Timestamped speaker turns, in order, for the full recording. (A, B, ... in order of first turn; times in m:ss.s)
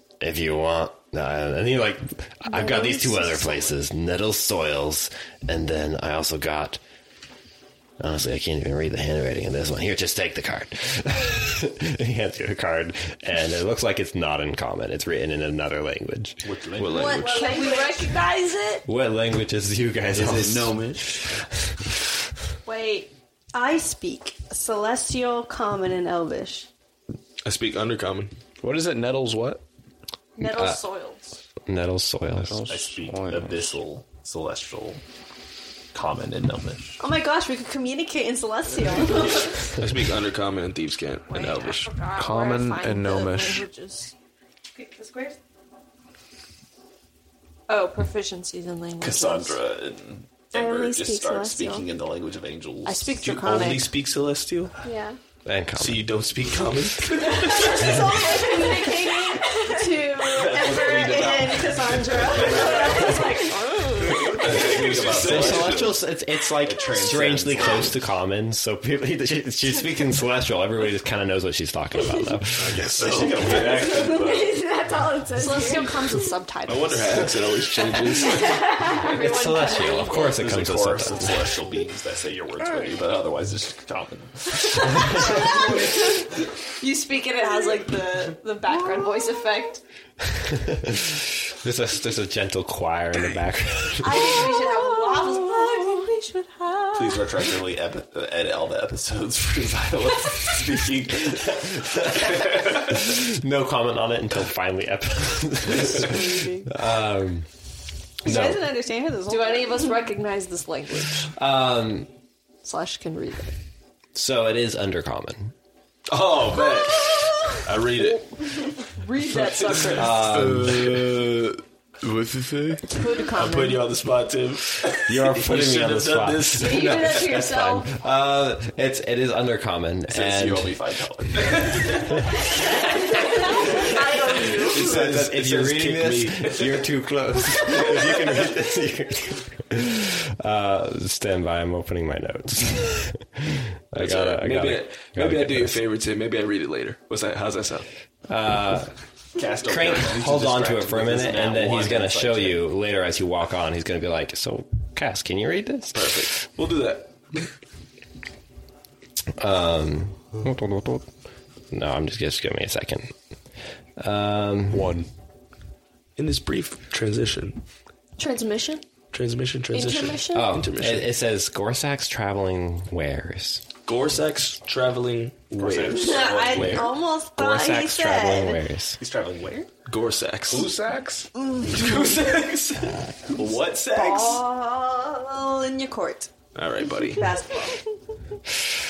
0:00.2-0:06.8 A
0:08.0-0:16.5 A
0:16.4-0:17.3 B
0:16.8-0:17.4 C
0:16.9-0:18.8 D
0:17.2-0:18.4 E
0:18.9-0:21.3 A
0:20.1-0:21.3 B
0:22.7-0:26.7 D
0:27.4-0:28.4 C
0:28.6-0:29.6 F
0:30.4-0:31.4 E
0:30.4-0:30.8 A
0:30.7-0:31.0 D
0:31.6-0:32.6 A
0:32.5-0:33.5 F
0:32.7-0:35.0 B
0:35.9-0:37.0 B
0:37.0-0:39.8 D
0:39.7-0:42.0 C
0:41.3-0:44.1 E
0:42.2-0:43.6 F
0:44.8-0:45.4 D
0:47.7-0:49.6 E
0:49.0-0:53.2 B
0:50.5-0:51.9 D
0:52.8-0:54.0 E
0:53.2-0:54.8 C
0:54.8-0:55.2 D
0:55.4-0:56.1 A
0:55.8-0:58.1 C
0:57.2-1:04.7 D
0:57.8-0:59.8 E
1:00.2-1:05.9 B
1:02.5-1:03.4 E
1:04.0-1:06.0 C
1:05.2-1:12.9 A
1:06.6-1:08.0 B
1:12.6-1:13.7 C
1:12.9-1:14.6 B
1:13.5-1:16.3 D
1:15.4-1:17.3 E
1:16.7-1:18.6 C
1:18.3-1:20.1 D
1:18.8-1:20.5 E
1:18.8-1:21.6 A
1:20.3-1:26.2 B
1:24.9-1:26.2 E
1:26.8-1:29.8 E
1:30.3-1:34.7 A
1:34.0-1:37.3 E
1:35.1-1:36.0 D
1:36.9-1:42.6 B
1:41.9-1:47.5 A
1:46.0-1:46.6 D
1:48.2-1:48.7 A
1:48.2-1:50.0 D
1:49.3-1:51.3 E
1:51.4-1:52.1 A
1:52.6-1:53.6 E
1:54.1-1:55.5 A
1:56.1-1:58.7 C
1:58.5-2:00.3 E
1:59.8-2:01.0 A
2:00.2-2:07.2 C
2:02.8-2:03.8 E
2:05.0-2:10.8 A
2:06.6-2:07.9 E
2:10.1-2:12.3 B
2:13.8-2:15.0 E
2:14.5-2:16.8 C
2:14.6-2:25.8 A
2:24.0-2:27.9 C
2:28.3-2:28.9 A
2:29.4-2:32.6 B
2:29.6-2:36.2 A
2:35.9-2:37.5 C
2:39.4-2:41.1 A
2:41.7-2:43.1 A
2:44.0-2:45.0 A
2:44.8-2:45.0 F
2:46.2-2:47.6 C
2:48.2-2:48.8 E
2:49.1-2:51.1 C
2:49.7-2:50.5 D
2:50.3-2:53.6 A
2:53.9-2:56.9 C
2:55.5-2:57.0 B
2:55.9-2:58.6 D
2:57.3-2:59.0 A
2:59.0-2:59.7 B
2:59.9-3:00.7 C
3:00.5-3:01.3 F
3:01.4-3:02.1 D
3:01.7-3:04.4 C
3:01.9-3:02.5 B
3:03.3-3:04.4 B
3:03.9-3:06.3 D
3:06.6-3:07.2 C
3:06.8-3:07.8 D
3:07.2-3:07.6 E